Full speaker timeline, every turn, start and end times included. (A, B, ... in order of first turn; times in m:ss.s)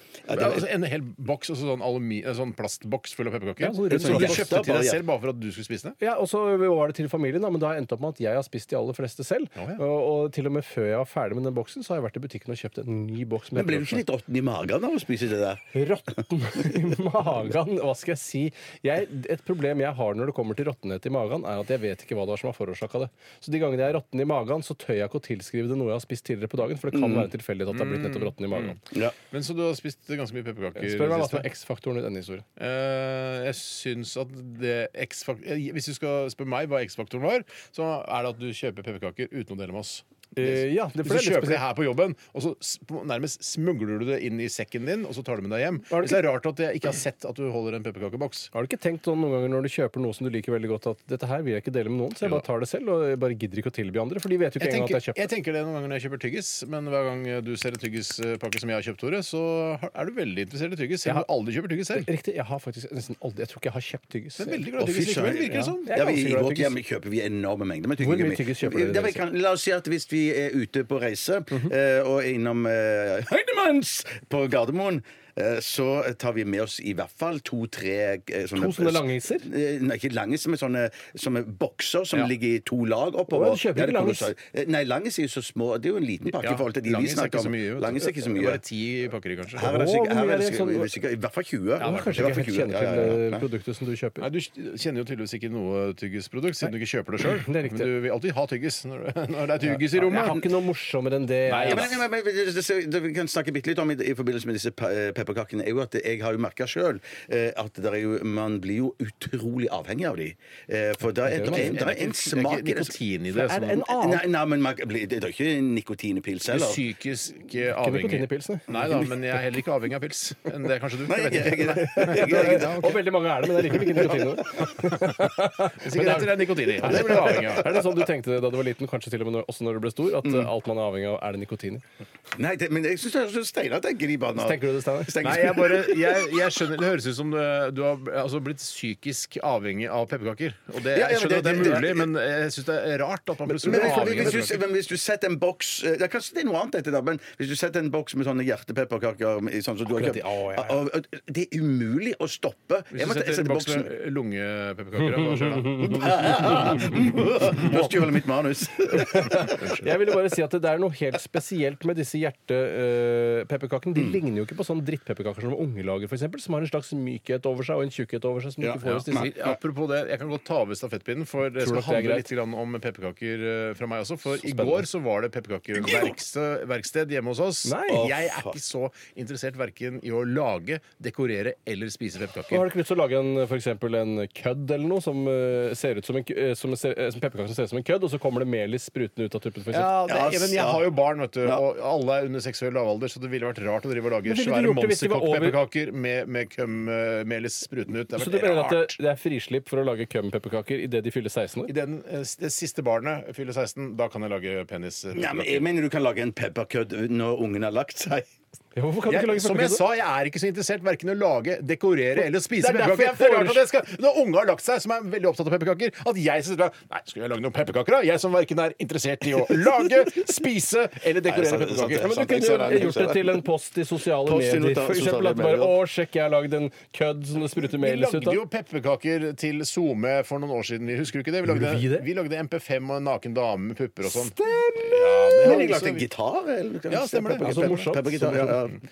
0:00.2-0:00.6 A
0:00.3-0:06.0 B
0:03.6-0:04.6 C
0:03.9-0:05.0 A
0:06.0-0:14.0 C
0:13.5-0:15.6 A
0:15.7-0:28.8 C
0:26.9-0:27.3 A
0:27.7-0:28.8 B
0:29.3-0:31.4 B
0:30.8-0:32.4 C
0:32.6-0:48.5 B
0:40.4-0:41.6 C
0:45.9-0:46.2 C
0:48.5-0:55.2 C
0:54.6-1:02.1 B
1:01.9-1:04.6 C
1:04.4-1:05.9 B
1:04.8-1:28.6 A
1:05.6-1:06.8 C
1:08.0-1:09.2 C
1:18.5-1:19.5 C
1:23.3-1:24.3 C
1:26.4-1:29.7 B
1:29.5-1:33.4 A
1:29.6-1:30.9 C
1:31.8-1:34.3 C
1:31.8-1:32.3 B
1:34.2-1:40.4 B
1:37.4-1:37.9 C
1:39.6-1:42.0 C
1:41.5-1:42.0 B
1:41.7-1:53.0 A
1:51.3-1:51.7 C
1:51.4-1:53.9 B
1:53.3-1:54.2 C
1:53.9-1:56.8 A
1:56.5-2:03.0 B
1:57.7-1:58.7 C
1:58.7-1:59.0 A
2:01.0-2:03.0 A
2:01.6-2:11.8 C
2:04.8-2:07.8 B
2:12.3-2:16.3 A
2:14.4-2:15.2 C
2:15.2-2:24.6 B
2:20.9-2:22.1 A
2:23.4-2:24.6 C
2:23.6-2:33.9 A
2:29.9-2:30.8 C
2:32.9-2:36.2 B
2:35.3-2:37.0 C
2:35.8-2:39.7 A
2:38.9-2:49.3 C
2:48.6-2:49.5 A
2:48.8-3:02.6 B
2:51.6-2:52.3 C
2:54.3-2:54.8 C
2:55.8-2:56.1 A
2:57.6-2:58.1 C
2:57.9-2:58.6 A
3:02.5-3:10.0 C
3:09.7-3:19.0 B
3:10.1-3:10.9 A
3:14.2-3:15.6 C
3:18.2-3:21.7 C
3:21.7-3:25.6 B
3:25.1-3:28.3 A
3:28.8-3:29.8 C
3:29.1-3:42.9 B
3:32.2-3:33.6 C
3:41.2-3:43.4 A
3:42.0-3:48.4 C
3:44.2-3:45.8 A
3:47.6-3:56.0 B
3:51.4-3:52.0 C
3:54.1-3:55.7 C
3:54.5-3:58.8 A
3:56.9-3:58.6 B
3:57.4-3:58.5 C